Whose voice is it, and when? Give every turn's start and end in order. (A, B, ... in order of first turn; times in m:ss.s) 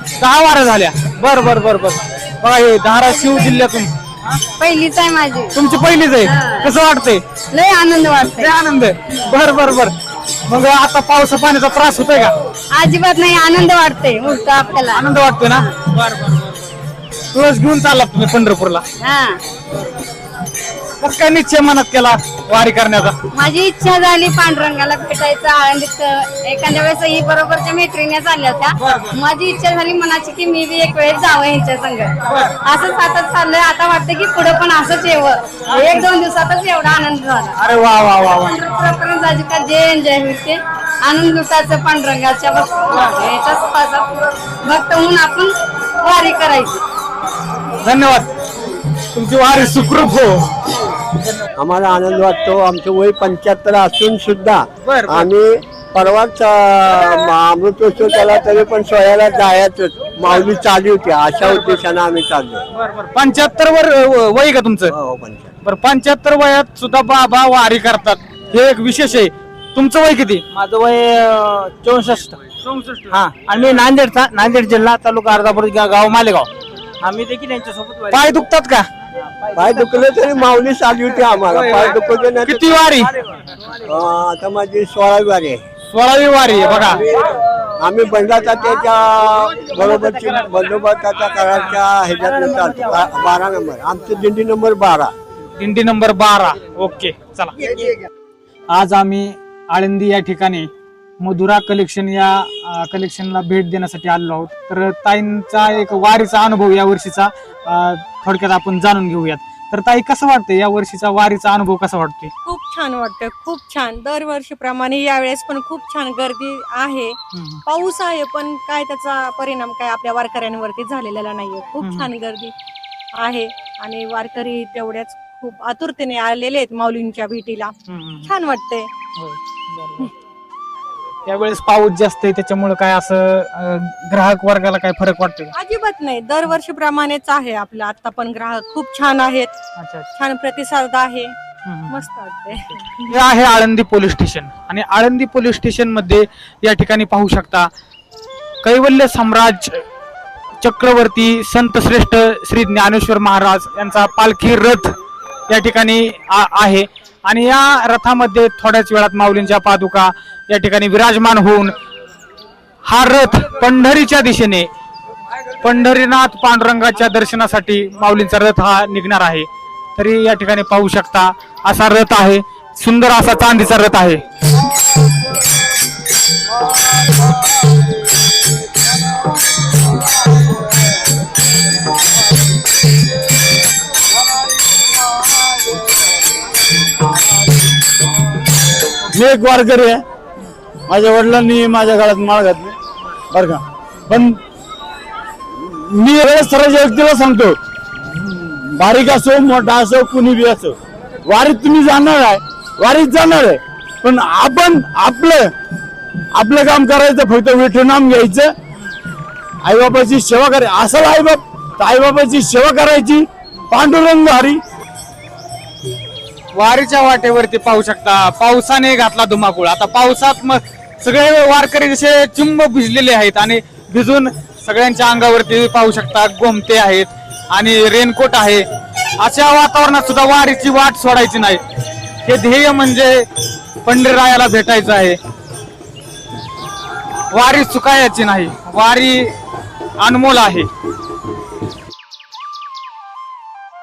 0:00.2-0:03.9 A
0:03.1-0:03.5 B
0:04.6-0:05.5 B
0:05.5-0:07.2 A
0:06.3-0:06.7 B
0:07.5-0:08.5 B
0:08.4-0:09.9 A
0:10.5-0:12.3 A
0:12.7-0:15.6 B
0:14.9-0:16.4 A
0:17.3-0:18.8 A
0:19.0-0:19.4 B
0:21.0-0:23.1 A
0:23.3-0:32.1 B
0:32.6-0:37.6 B
0:37.6-0:38.6 A
0:38.3-0:45.5 B
0:46.0-0:46.8 B
0:47.8-0:48.3 A
0:49.1-0:50.4 A
0:51.6-1:02.6 C
0:54.8-0:55.3 A
1:02.8-1:04.9 A
1:04.9-1:05.5 C
1:05.6-1:10.4 A
1:10.7-1:12.3 D
1:13.1-1:16.4 A
1:13.3-1:15.0 D
1:15.8-1:16.4 D
1:17.0-1:18.1 D
1:18.1-1:18.8 A
1:19.5-1:22.7 C
1:22.4-1:23.1 A
1:23.8-1:25.6 C
1:25.9-1:27.0 A
1:27.8-1:35.1 C
1:35.6-1:37.5 A
1:38.7-1:40.7 A
1:41.2-1:52.3 A
1:52.4-2:02.5 E
1:57.3-1:57.6 A
2:01.8-2:02.1 A
2:03.1-2:07.7 E
2:07.9-2:08.3 A
2:08.2-2:08.9 E
2:09.2-2:10.1 A
2:11.2-2:15.5 A
2:15.5-2:19.6 E
2:19.8-2:20.1 A
2:20.2-2:21.3 E
2:21.7-2:22.0 A
2:21.9-2:23.1 E
2:23.1-2:27.7 A
2:28.6-2:29.8 A
2:30.6-2:34.9 A
2:35.5-2:41.7 A
2:42.8-2:44.7 A
2:45.6-2:54.2 A
3:09.1-3:10.0 F
3:10.9-3:12.8 F
3:13.3-3:14.4 F
3:15.6-3:17.6 F
3:18.1-3:20.7 F
3:21.2-3:25.5 F
3:26.4-3:28.5 F
3:29.6-3:34.6 F
3:36.6-3:48.6 A
3:49.2-3:51.6 A
3:52.2-3:53.2 A
3:53.8-3:55.2 A
3:57.3-3:59.3 A
4:00.0-4:00.7 A